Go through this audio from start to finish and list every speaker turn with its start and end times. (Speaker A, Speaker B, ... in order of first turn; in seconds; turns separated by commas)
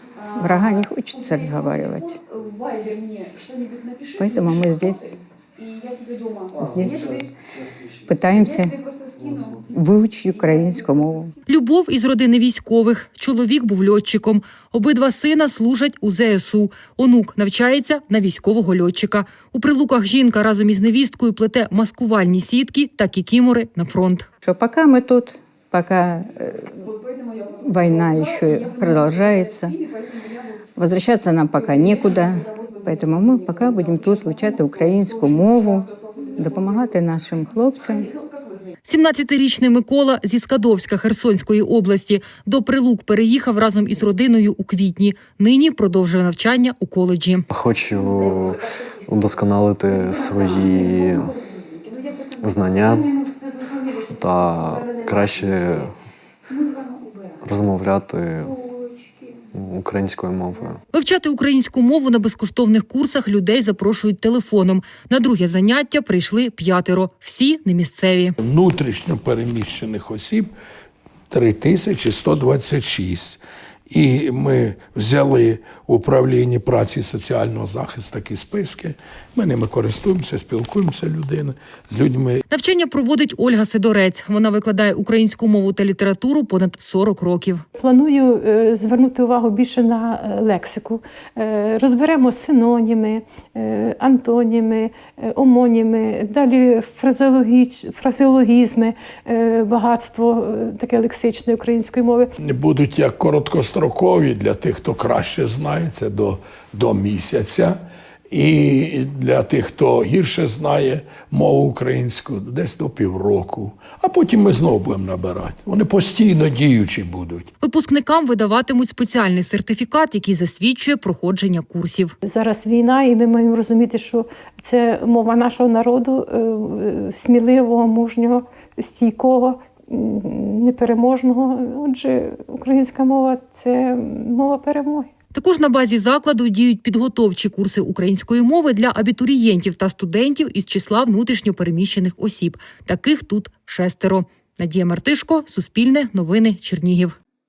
Speaker A: 0.4-2.2, Speaker A: 4.2-5.2, Speaker A: 6.6-7.3, Speaker A: 8.1-8.8, Speaker A: 9.6-11.3, Speaker B: 11.5-24.3, Speaker A: 24.4-26.9, Speaker A: 27.6-29.8, Speaker A: 30.8-38.1, Speaker B: 38.8-47.5, Speaker C: 47.5-48.6, Speaker C: 49.1-51.3, Speaker C: 52.5-53.0, Speaker C: 54.2-55.9, Speaker C: 57.5-58.5, Speaker C: 59.5-60.8, Speaker B: 60.9-68.4, Speaker D: 68.4-70.5, Speaker D: 71.3-82.4, Speaker B: 82.5-87.6, Speaker E: 87.8-102.3, Speaker D: 102.5-107.8, Speaker D: 108.3-117.5, Speaker B: 117.6-122.2, Speaker E: 122.2-135.1, Speaker B: 135.3-147.2